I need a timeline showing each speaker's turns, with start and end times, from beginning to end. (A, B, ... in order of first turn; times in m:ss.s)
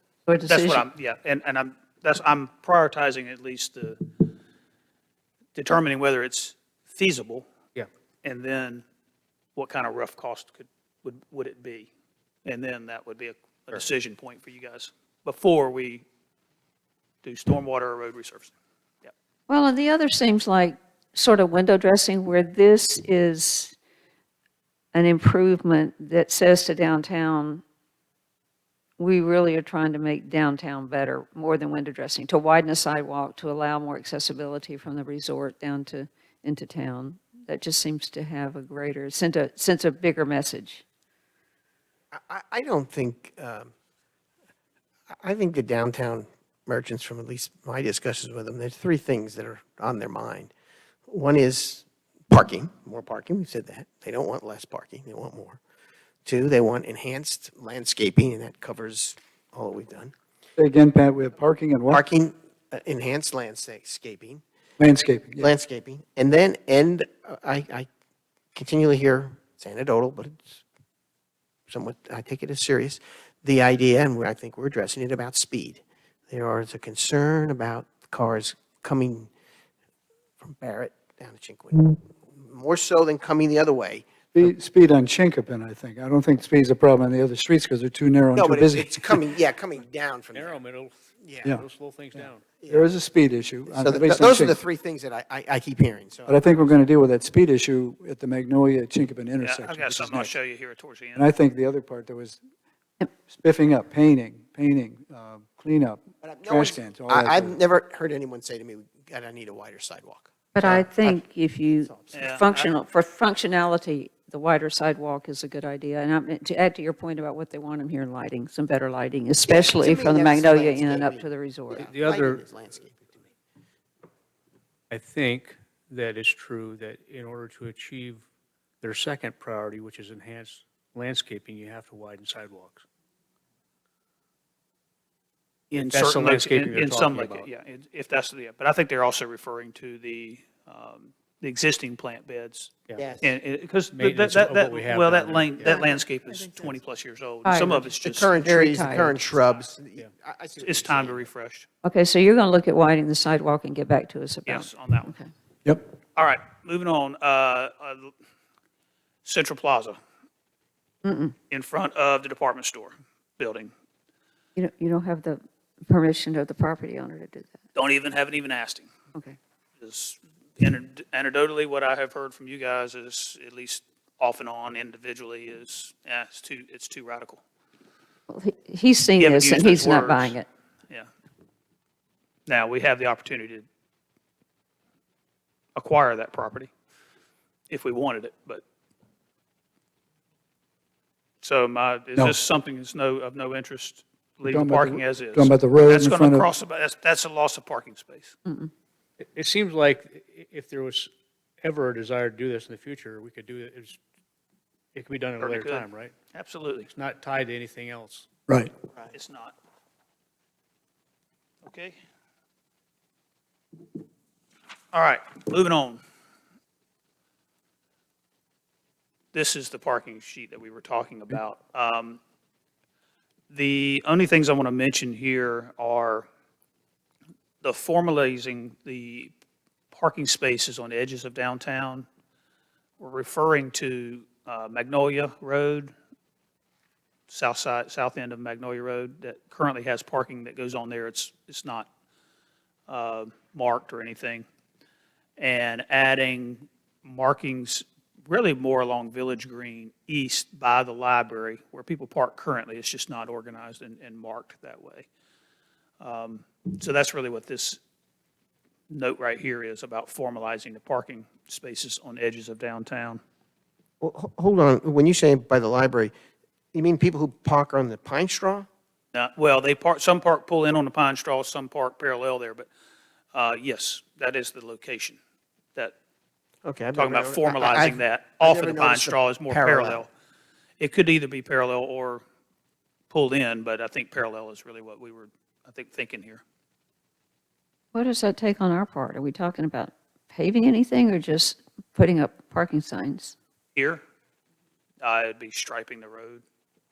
0:00.2-0:00.9 A
0:00.5-0:04.3 B
0:05.5-0:07.5 B
0:08.2-0:08.8 B
0:09.6-0:11.9 B
0:12.4-0:16.0 B
0:17.2-0:18.5 B
0:19.5-0:23.7 A
0:24.9-0:27.6 A
0:29.0-0:40.8 A
0:42.1-0:43.7 C
0:45.1-0:50.5 C
0:51.1-0:55.6 C
0:56.2-1:00.1 C
1:00.6-1:02.0 D
1:01.9-1:04.4 C
1:04.8-1:05.5 D
1:05.4-1:07.9 C
1:08.5-1:10.6 C
1:11.7-1:19.3 C
1:20.4-1:24.4 C
1:24.3-1:29.2 D
1:28.3-1:30.6 C
1:30.3-1:30.9 E
1:31.2-1:31.6 C
1:31.5-1:32.5 E
1:32.1-1:32.9 C
1:32.7-1:34.6 D
1:33.7-1:36.4 C
1:36.3-1:40.3 D
1:39.4-1:41.3 B
1:41.1-1:42.4 D
1:43.3-1:47.6 D
1:46.2-1:51.2 C
1:50.5-2:01.9 A
1:51.7-1:52.2 C
1:52.1-1:52.7 B
1:59.5-2:03.3 C
2:01.7-2:02.5 E
2:04.9-2:08.2 E
2:08.8-2:12.8 E
2:15.7-2:28.3 B
2:15.7-2:17.5 E
2:23.0-2:23.3 C
2:23.9-2:25.8 E
2:25.7-2:26.0 C
2:27.4-2:29.2 A
2:28.0-2:31.3 C
2:30.6-2:31.7 B
2:31.8-2:35.3 A
2:34.5-2:35.1 B
2:36.2-2:38.1 B
2:39.2-2:40.0 B
2:41.0-2:41.4 A
2:41.5-2:43.7 B
2:44.6-2:47.6 A
2:47.7-2:48.9 B
2:49.8-2:57.4 B
2:58.3-3:00.5 A
2:59.2-3:00.4 B
3:02.5-3:03.6 B
3:05.8-3:06.7 B
3:07.7-3:08.6 B
3:11.4-3:18.4 B
3:14.4-3:16.5 D
3:18.4-3:18.7 A
3:19.2-3:24.0 E
3:24.9-3:26.2 E
3:25.4-3:26.9 B
3:26.9-3:28.3 E
3:29.1-3:29.5 B
3:31.6-3:32.0 B
3:34.9-3:36.0 B
3:39.3-3:42.2 B
3:43.5-3:46.3 B
3:47.6-3:49.3 B
3:49.9-3:52.1 B
3:53.0-3:55.9 B
3:57.3-4:01.9 B
4:02.9-4:04.4 B
4:05.4-4:15.1 B
4:16.0-4:17.8 B
4:18.9-4:23.2 B
4:24.0-4:26.1 C
4:26.7-4:28.7 C
4:29.1-4:32.7 B
4:33.3-4:35.2 B
4:36.6-4:40.0 C
4:36.9-4:40.1 B
4:40.8-4:42.2 B
4:43.1-4:46.4 B
4:47.9-4:53.4 A
4:53.8-4:54.0 B
4:55.0-4:56.4 B